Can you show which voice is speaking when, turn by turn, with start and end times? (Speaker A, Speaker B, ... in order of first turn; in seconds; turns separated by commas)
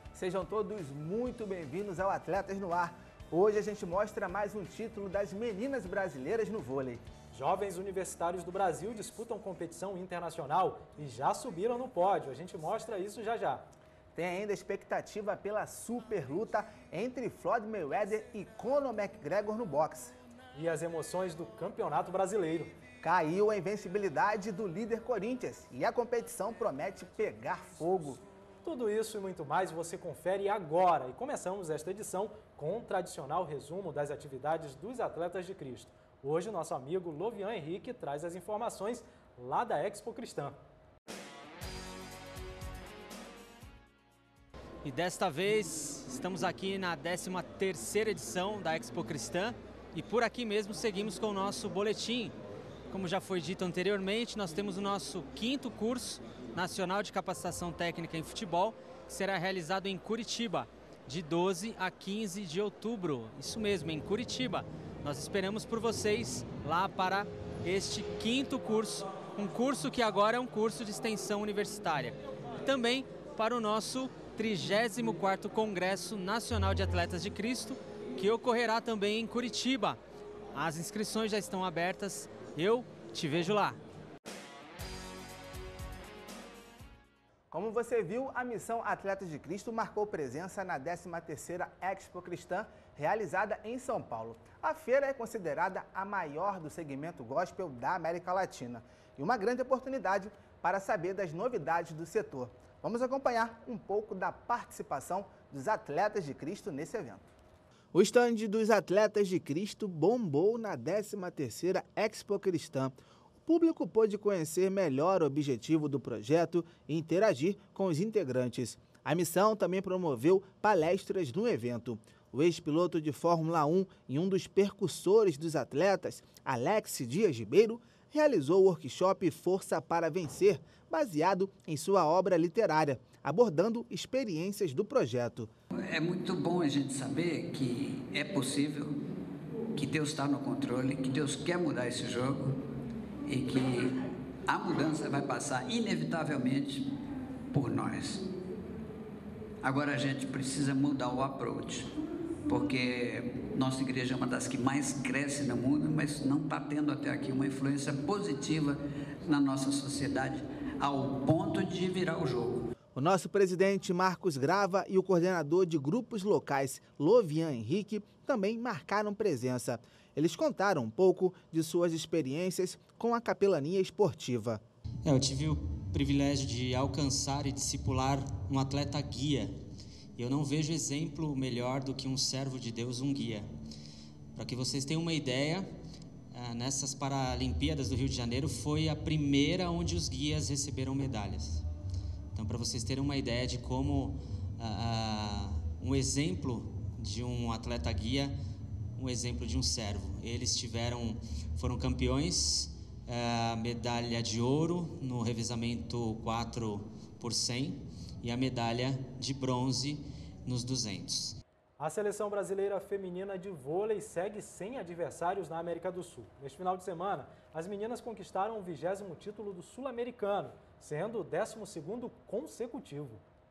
Speaker A: 0.1-7.0, Speaker B: 7.3-13.7, Speaker A: 14.2-20.1, Speaker B: 20.5-22.7, Speaker A: 23.0-28.2, Speaker B: 28.6-40.6, Speaker C: 44.8-52.4, Speaker C: 52.9-80.0, Speaker C: 80.5-83.8, Speaker A: 87.5-107.3, Speaker A: 107.9-112.9, Speaker A: 113.5-135.5, Speaker D: 135.8-139.0, Speaker D: 139.8-142.6, Speaker D: 143.2-146.9, Speaker D: 147.5-148.3, Speaker D: 149.6-151.9, Speaker D: 152.5-162.7, Speaker A: 162.9-174.6, Speaker E: 175.0-179.6, Speaker E: 180.2-183.5, Speaker E: 184.3-185.7, Speaker E: 186.3-191.7, Speaker E: 192.3-198.3, Speaker E: 199.0-211.4, Speaker B: 211.8-223.2